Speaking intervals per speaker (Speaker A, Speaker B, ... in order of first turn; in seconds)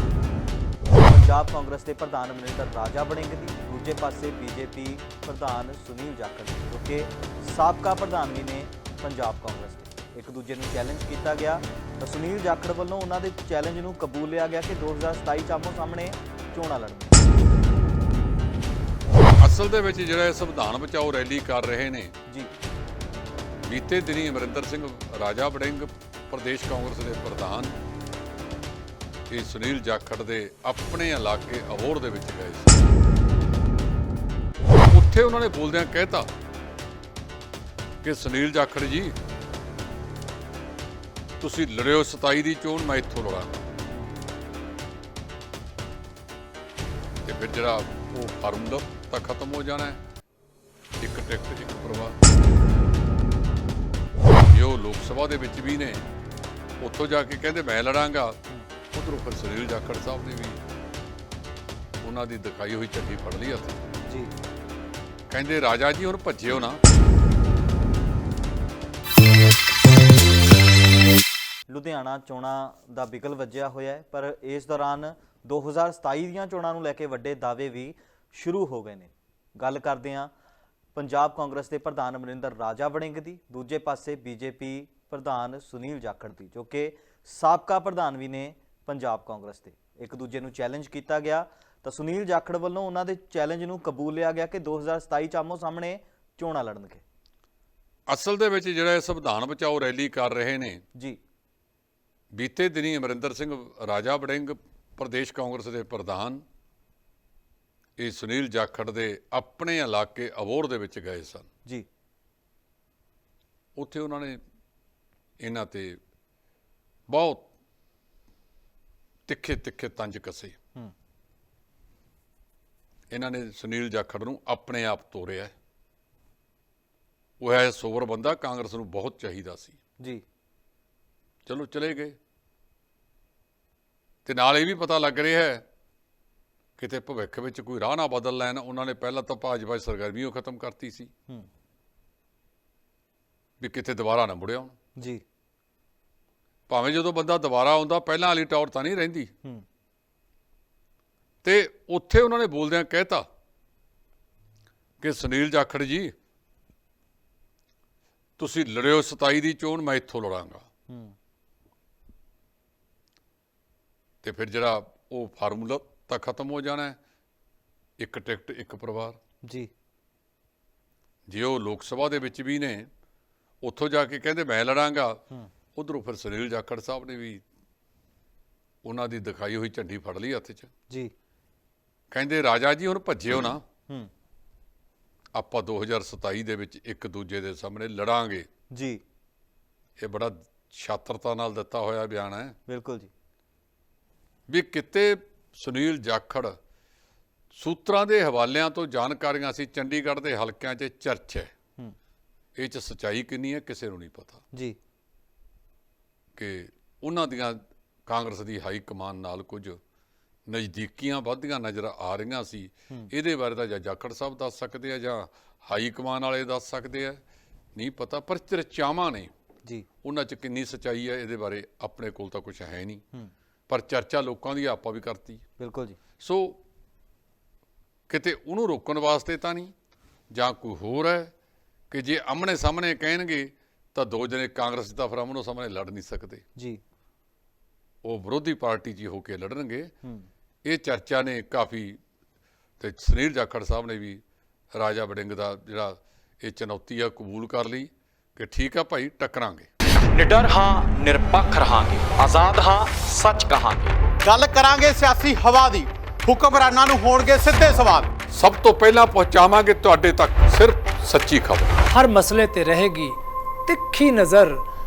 Speaker A: 1.0-17.2, 64.1-64.3, 71.7-80.3, 81.0-97.0, 188.7-189.0, 192.7-193.1, 225.6-226.0
Speaker B: 19.4-22.1, 23.6-27.8, 29.3-32.9, 34.9-36.3, 38.0-39.2, 41.4-43.6, 47.2-50.0, 51.0-52.2, 54.4-56.0, 56.8-58.4, 58.9-60.6, 62.0-63.8, 65.3-66.8, 98.1-100.8, 102.3-106.4, 108.0-111.5, 113.8-114.4, 115.4-116.0, 117.1-117.5, 119.3-120.5, 123.1-125.5, 127.4-129.8, 131.5-132.2, 134.2-135.6, 136.8-141.1, 143.6-144.7, 146.7-149.3, 151.4-153.2, 155.0-156.1, 158.4-160.6, 164.2-167.0, 168.0-169.2, 171.3-172.9, 173.6-175.2, 175.8-177.4, 178.8-180.7, 182.1-183.6, 185.3-188.5, 190.0-192.6, 194.5-196.6, 197.5-201.5, 202.6-204.4, 206.3-209.8, 210.5-217.2, 217.8-219.3, 220.0-223.0, 223.7-225.4, 226.2-226.6, 228.1-229.7, 230.3-231.3, 231.9-236.4, 238.0-239.9, 240.6-242.0, 242.8-244.2, 244.7-249.7, 258.3-261.8
Speaker C: 250.1-254.0
Speaker D: 254.2-258.1
Speaker E: 261.9-264.6